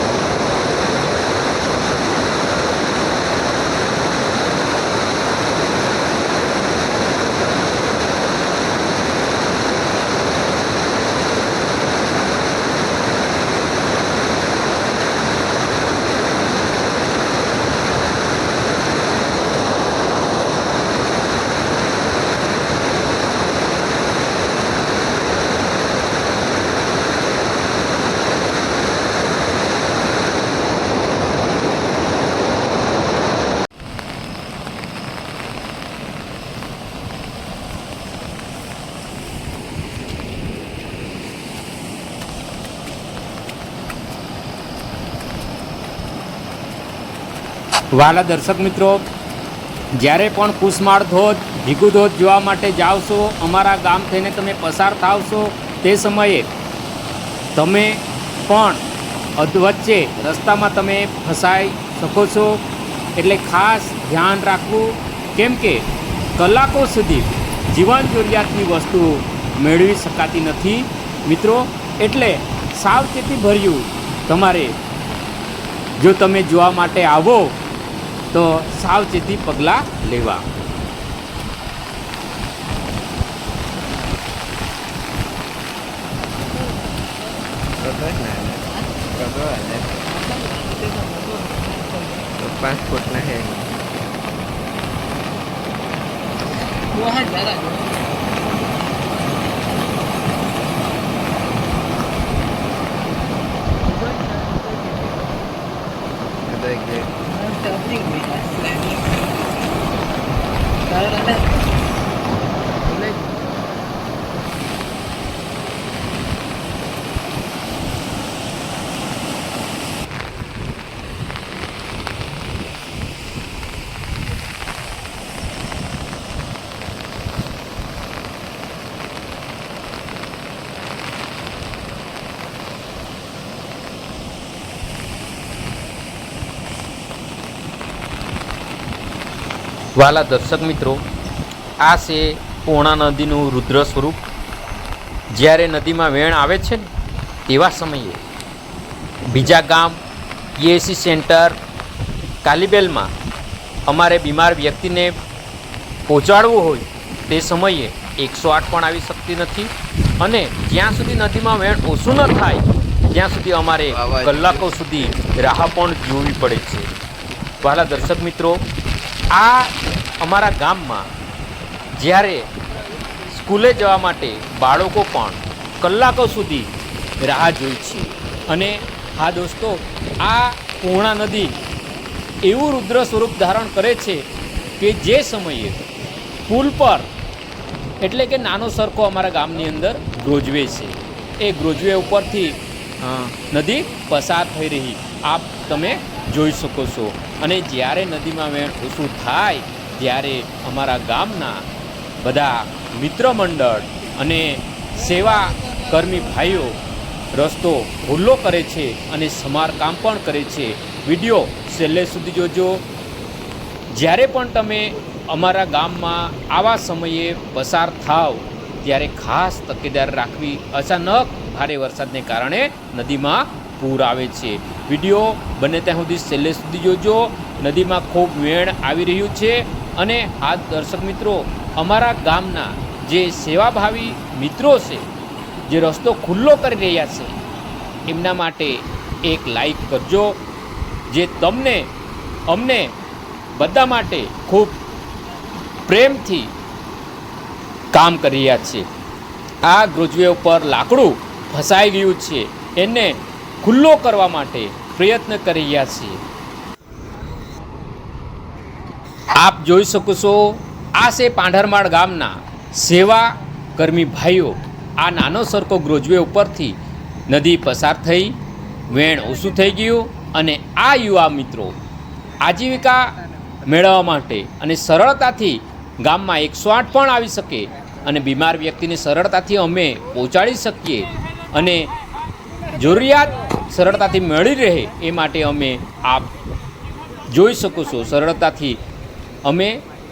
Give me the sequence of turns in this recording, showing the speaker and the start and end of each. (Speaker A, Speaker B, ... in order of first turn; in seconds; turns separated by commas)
Speaker A: 47.9-49.0, Speaker A: 50.0-56.5, Speaker A: 57.5-58.8, Speaker A: 59.4-62.6, Speaker A: 63.2-65.8, Speaker A: 66.4-74.8, Speaker A: 76.0-77.6, Speaker A: 78.3-80.4, Speaker B: 87.8-90.0, Speaker C: 90.1-92.2, Speaker B: 92.4-93.8, Speaker C: 96.9-98.5, Speaker C: 103.9-105.1, Speaker B: 106.4-107.1, Speaker C: 107.2-109.0, Speaker C: 110.9-111.5, Speaker C: 112.9-113.2, Speaker A: 139.9-141.0, Speaker A: 141.8-144.2, Speaker A: 145.3-146.9, Speaker A: 147.5-148.2, Speaker A: 149.3-150.0, Speaker A: 150.6-151.6, Speaker A: 152.4-153.1, Speaker A: 153.9-155.2, Speaker A: 156.1-166.9, Speaker B: 163.9-164.5, Speaker A: 167.6-168.6, Speaker A: 169.3-171.1, Speaker A: 172.0-172.5, Speaker A: 173.3-176.7, Speaker A: 177.2-181.6, Speaker A: 182.4-184.2, Speaker A: 184.8-185.9, Speaker A: 186.5-187.1, Speaker A: 188.0-192.6, Speaker B: 193.0-193.3, Speaker A: 193.4-201.7, Speaker A: 202.2-206.8, Speaker A: 207.3-212.8, Speaker A: 213.9-235.1, Speaker A: 235.7-237.3, Speaker A: 238.1-240.4, Speaker A: 241.1-241.9, Speaker A: 242.5-242.9, Speaker A: 243.6-244.8, Speaker A: 245.9-246.5, Speaker A: 247.9-248.9, Speaker A: 249.6-256.2, Speaker A: 259.3-266.8, Speaker A: 267.3-268.4, Speaker A: 268.9-271.8, Speaker A: 272.4-273.1, Speaker A: 273.6-281.9, Speaker A: 282.7-286.3, Speaker A: 287.3-288.8, Speaker A: 289.4-289.8